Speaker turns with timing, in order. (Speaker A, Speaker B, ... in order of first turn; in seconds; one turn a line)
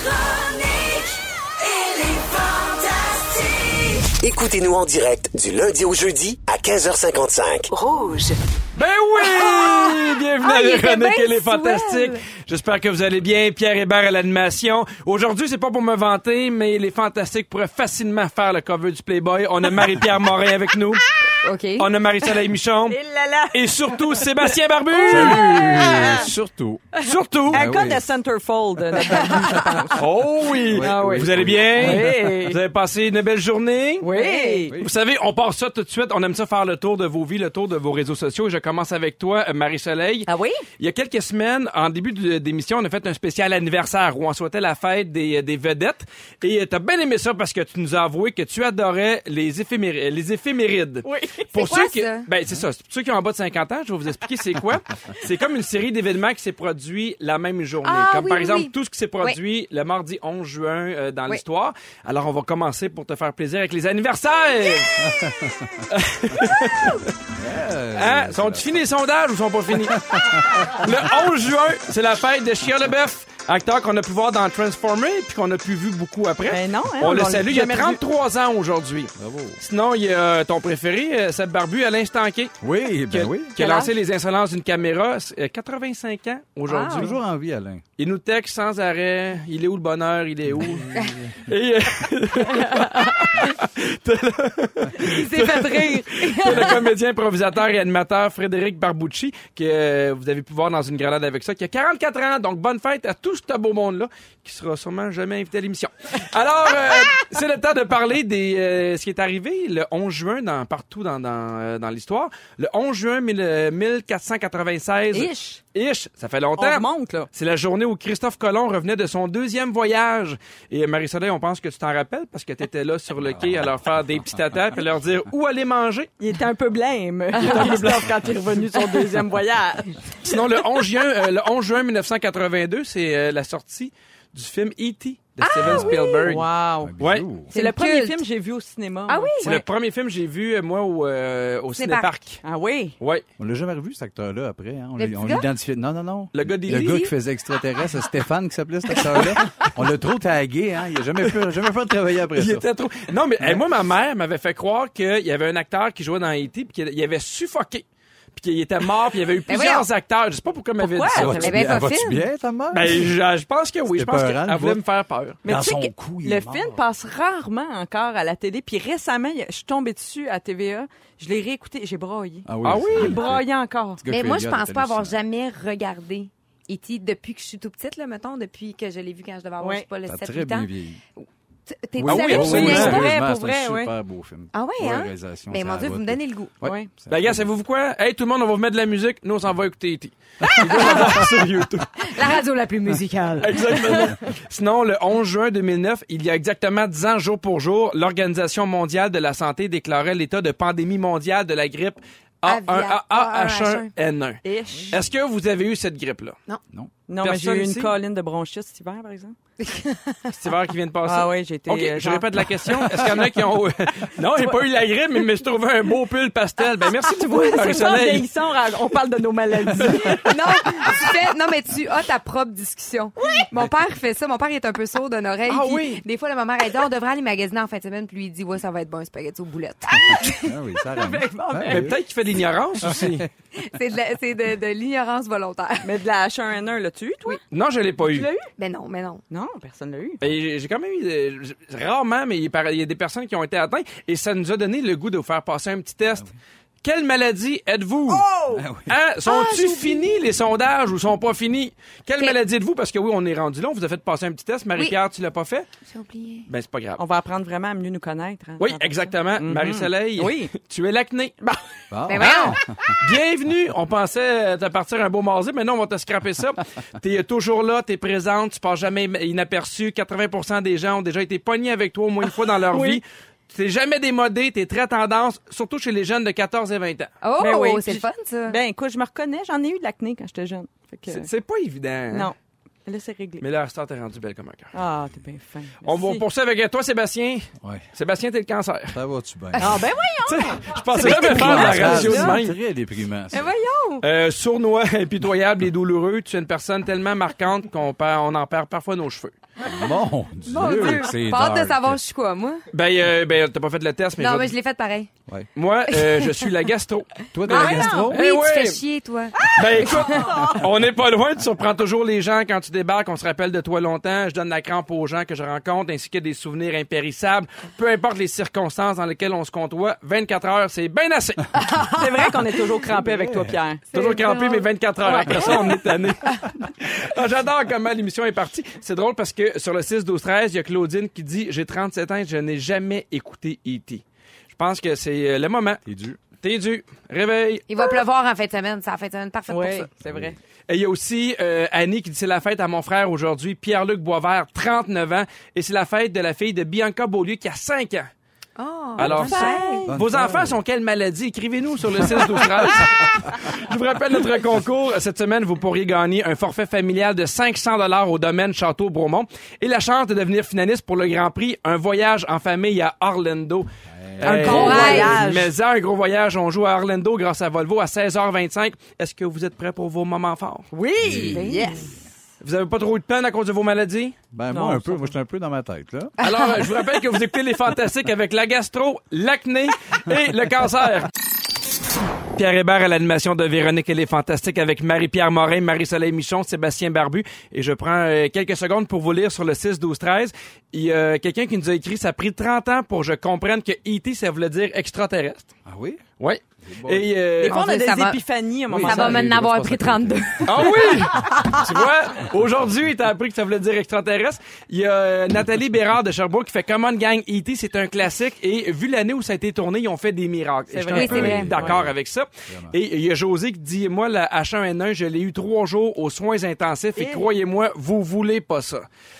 Speaker A: 0.2-1.0
Speaker A: 1.6-3.9
Speaker B: 4.2-7.7
Speaker A: 7.7-8.4
Speaker C: 8.7-21.1
Speaker D: 9.2-12.2
Speaker D: 21.4-21.9
Speaker C: 21.8-23.0
Speaker E: 22.9-26.3
Speaker C: 23.5-25.5
Speaker F: 25.1-26.9
Speaker C: 27.0-27.8
Speaker F: 27.5-28.1
Speaker E: 27.5-30.0
Speaker F: 28.9-32.2
Speaker C: 30.0-34.1
Speaker E: 30.8-32.6
Speaker E: 34.0-34.7
Speaker D: 34.1-34.7
Speaker C: 34.8-40.3
Speaker E: 40.3-40.6
Speaker C: 40.8-65.2
Speaker E: 51.0-51.6
Speaker D: 51.6-52.3
Speaker D: 57.8-59.4
Speaker F: 65.0-65.8
Speaker C: 65.9-67.0
Speaker F: 67.3-68.8
Speaker C: 67.9-82.5
Speaker F: 69.9-70.9
Speaker E: 76.5-78.0
Speaker F: 79.2-79.6
Speaker F: 82.6-83.5
Speaker C: 83.1-87.2
Speaker E: 83.6-83.9
Speaker D: 86.7-87.1
Speaker F: 86.9-87.8
Speaker C: 88.0-126.1
Speaker F: 90.5-91.3
Speaker D: 92.5-93.2
Speaker D: 95.0-96.8
Speaker E: 115.1-115.6
Speaker E: 116.5-117.3
Speaker F: 123.3-123.6
Speaker E: 126.2-130.6
Speaker C: 127.3-128.3
Speaker C: 130.2-136.4
Speaker D: 135.4-136.3
Speaker F: 135.6-135.9
Speaker E: 136.2-136.9
Speaker F: 136.8-137.5
Speaker C: 137.0-137.3
Speaker E: 137.5-139.6
Speaker D: 137.5-138.2
Speaker D: 139.1-139.6
Speaker C: 139.4-142.4
Speaker D: 141.8-142.1
Speaker E: 142.4-142.9
Speaker C: 143.0-143.2
Speaker F: 143.4-152.7
Speaker D: 145.0-145.4
Speaker C: 146.3-147.1
Speaker D: 146.7-147.1
Speaker C: 152.3-161.4
Speaker D: 159.5-159.9
Speaker E: 160.8-161.8
Speaker F: 161.1-163.1
Speaker D: 161.2-162.2
Speaker C: 162.7-165.4
Speaker F: 163.9-164.8
Speaker F: 165.4-166.8
Speaker E: 165.4-174.0
Speaker F: 172.4-173.4
Speaker C: 172.6-173.2
Speaker F: 174.0-175.2
Speaker D: 174.1-183.1
Speaker E: 179.6-179.8
Speaker F: 180.1-181.0
Speaker F: 182.0-187.5
Speaker C: 182.0-183.0
Speaker E: 182.3-183.9
Speaker D: 184.5-186.6
Speaker E: 186.6-186.9
Speaker C: 187.1-192.1
Speaker D: 190.5-191.3
Speaker D: 192.0-194.2
Speaker C: 193.4-204.4
Speaker D: 202.4-203.9
Speaker E: 204.4-205.0
Speaker F: 204.7-204.9
Speaker C: 204.9-206.3
Speaker E: 207.1-209.3
Speaker C: 207.2-207.9
Speaker D: 209.6-210.3
Speaker C: 210.3-218.3
Speaker E: 211.0-213.0
Speaker E: 217.0-220.4
Speaker C: 219.7-220.2
Speaker D: 220.1-230.6
Speaker C: 225.5-226.0
Speaker F: 230.1-232.0
Speaker E: 230.9-231.9
Speaker C: 231.7-233.2
Speaker F: 232.8-233.3
Speaker D: 233.5-235.9
Speaker E: 235.8-237.4
Speaker C: 237.5-238.3
Speaker E: 238.0-238.5
Speaker D: 238.5-239.2
Speaker E: 239.3-240.2
Speaker C: 240.2-246.3
Speaker C: 246.8-248.2
Speaker E: 248.1-248.6
Speaker F: 248.5-248.9
Speaker C: 248.9-255.7
Speaker D: 249.2-250.2
Speaker D: 255.9-256.4
Speaker C: 256.5-257.0
Speaker E: 257.0-260.5
Speaker C: 258.6-261.3
Speaker F: 261.9-263.0
Speaker D: 262.1-262.6
Speaker C: 263.0-277.1
Speaker E: 272.7-273.0
Speaker D: 277.2-278.6
Speaker E: 277.4-281.3
Speaker C: 281.1-282.3
Speaker E: 282.1-283.4
Speaker C: 283.4-284.7
Speaker E: 284.7-286.2
Speaker C: 285.9-289.0
Speaker F: 287.6-287.9
Speaker F: 288.9-289.8
Speaker E: 289.6-292.4
Speaker C: 290.2-292.6
Speaker F: 291.0-293.5
Speaker E: 293.3-294.0
Speaker D: 293.5-294.0
Speaker C: 294.0-299.4
Speaker F: 299.6-302.0
Speaker D: 300.5-302.6
Speaker E: 300.6-300.9
Speaker C: 302.7-304.5
Speaker D: 304.1-305.1
Speaker C: 305.6-308.8
Speaker D: 305.9-306.5
Speaker F: 307.3-308.2
Speaker D: 307.4-310.6
Speaker E: 307.5-308.1
Speaker C: 309.4-321.5
Speaker E: 309.8-310.4
Speaker D: 321.7-322.0
Speaker E: 321.9-325.8
Speaker F: 322.9-323.6
Speaker C: 323.9-338.0
Speaker D: 323.9-324.6
Speaker F: 335.9-336.2
Speaker D: 337.7-339.9
Speaker E: 339.5-340.4
Speaker F: 340.1-340.3
Speaker C: 340.7-348.1
Speaker D: 348.6-349.8
Speaker E: 349.0-350.0
Speaker C: 349.0-363.7
Speaker F: 349.9-350.6
Speaker F: 363.9-364.9
Speaker C: 364.2-371.4
Speaker E: 364.2-365.5
Speaker D: 364.3-365.2
Speaker E: 370.7-371.9
Speaker F: 371.0-371.7
Speaker D: 371.5-371.9
Speaker C: 372.4-374.2
Speaker F: 374.3-376.1
Speaker E: 374.5-375.1
Speaker C: 376.2-381.1
Speaker D: 376.2-376.6
Speaker C: 382.3-395.5
Speaker F: 395.6-396.0
Speaker C: 396.2-397.6
Speaker F: 396.6-397.1
Speaker E: 397.4-399.3
Speaker D: 397.5-398.2
Speaker F: 398.7-400.7
Speaker D: 398.8-401.6
Speaker C: 400.4-418.9
Speaker E: 410.7-411.7
Speaker D: 410.9-411.6
Speaker F: 411.1-411.9
Speaker F: 412.5-412.8
Speaker E: 416.9-417.3